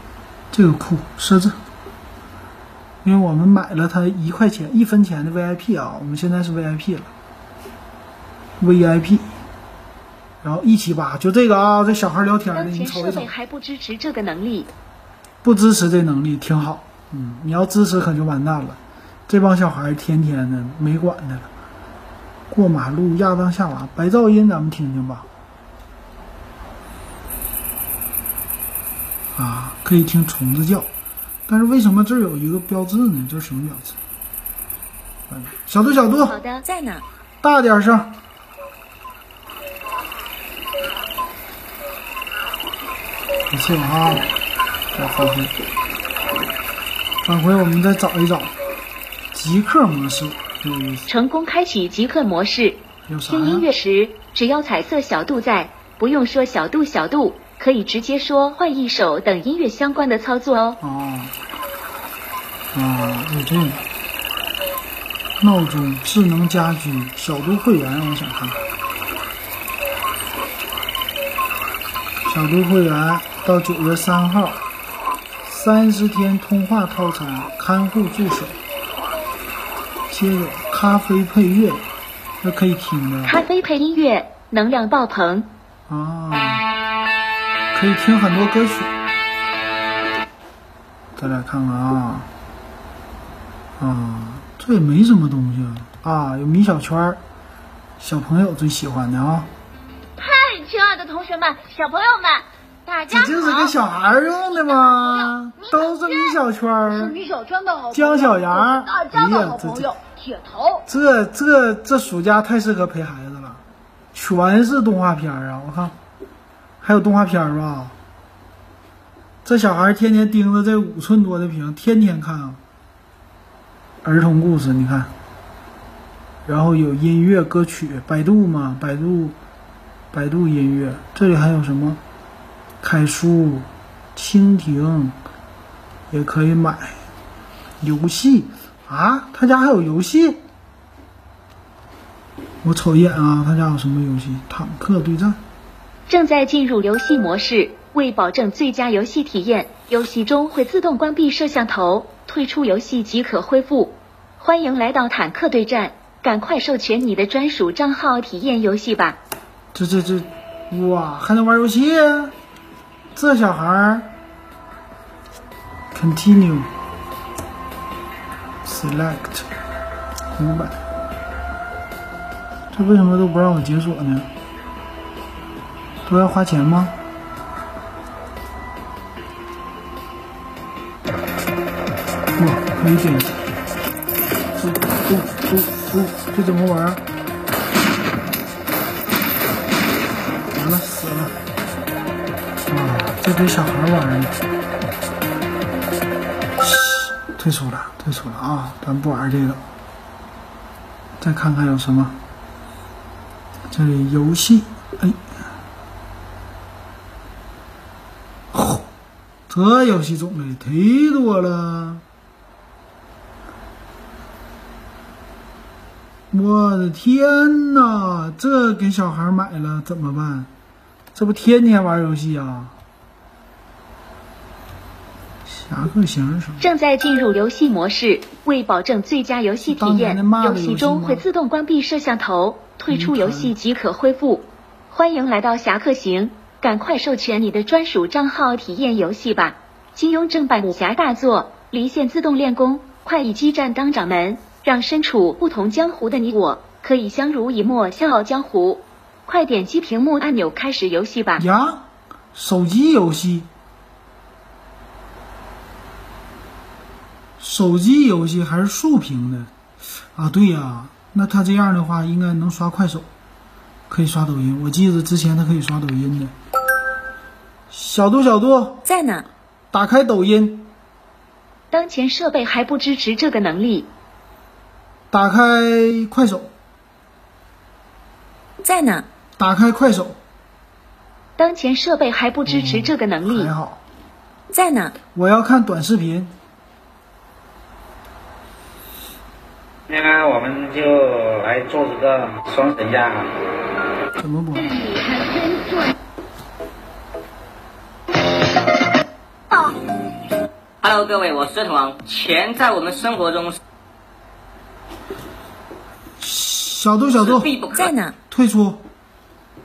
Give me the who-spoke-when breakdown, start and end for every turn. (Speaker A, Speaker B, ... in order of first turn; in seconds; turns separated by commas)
Speaker A: 0.5-1.6, Speaker A: 3.0-7.1, Speaker A: 8.6-9.3, Speaker A: 10.4-13.3, Speaker B: 12.5-14.7, Speaker A: 15.4-21.5, Speaker A: 22.5-25.3, Speaker A: 29.3-30.9, Speaker A: 31.5-34.0, Speaker A: 35.3-36.4, Speaker B: 36.2-37.0, Speaker A: 37.4-38.2, Speaker A: 43.5-44.3, Speaker A: 44.9-45.5, Speaker A: 47.2-48.5, Speaker A: 49.3-51.1, Speaker B: 51.1-60.8, Speaker A: 53.1-53.7, Speaker A: 60.8-61.3, Speaker A: 62.7-63.9, Speaker A: 65.4-68.7, Speaker A: 72.2-74.6, Speaker A: 75.4-78.6, Speaker A: 80.1-81.8, Speaker A: 82.4-83.4, Speaker B: 83.2-85.5, Speaker A: 85.9-86.7, Speaker A: 87.7-88.9, Speaker A: 91.2-92.3, Speaker A: 93.8-97.2, Speaker A: 98.0-99.5, Speaker C: 100.2-103.8, Speaker A: 103.1-107.2, Speaker C: 104.3-110.8, Speaker A: 107.9-109.9, Speaker A: 110.9-113.6, Speaker A: 114.1-116.0, Speaker A: 116.8-117.9, Speaker A: 119.4-122.6, Speaker A: 124.0-125.1, Speaker A: 126.5-129.3, Speaker A: 130.1-132.0, Speaker A: 132.8-135.2, Speaker A: 136.1-136.9, Speaker A: 137.8-140.4, Speaker A: 142.6-145.4, Speaker B: 146.1-159.2, Speaker A: 159.7-162.3, Speaker A: 163.1-164.1, Speaker A: 165.9-166.7, Speaker A: 168.6-169.5, Speaker A: 170.3-170.8, Speaker A: 172.7-174.3, Speaker A: 176.1-176.9, Speaker A: 182.3-183.4, Speaker A: 184.6-187.0, Speaker A: 190.5-191.3, Speaker A: 192.7-194.3, Speaker A: 196.6-199.6, Speaker A: 201.2-202.2, Speaker A: 203.7-205.2, Speaker A: 208.5-208.8, Speaker A: 209.5-212.0, Speaker A: 216.3-220.5, Speaker A: 221.1-222.7, Speaker A: 225.5-226.7, Speaker B: 226.6-251.4, Speaker A: 229.7-231.2, Speaker A: 232.9-233.5, Speaker A: 251.4-253.5, Speaker A: 257.4-259.5, Speaker A: 260.1-263.1, Speaker A: 263.9-266.3, Speaker A: 267.7-268.8, Speaker B: 268.9-269.2, Speaker A: 269.7-270.7, Speaker B: 271.7-273.9, Speaker A: 275.1-276.5, Speaker B: 278.6-279.1, Speaker A: 279.4-280.2, Speaker B: 281.4-283.5, Speaker A: 282.4-283.8, Speaker B: 284.5-284.9, Speaker A: 285.1-286.3, Speaker D: 289.9-293.3, Speaker A: 294.1-294.8, Speaker C: 295.1-295.7, Speaker E: 300.8-303.5, Speaker A: 306.2-307.5, Speaker E: 307.4-307.8, Speaker B: 307.8-308.1, Speaker A: 308.3-308.8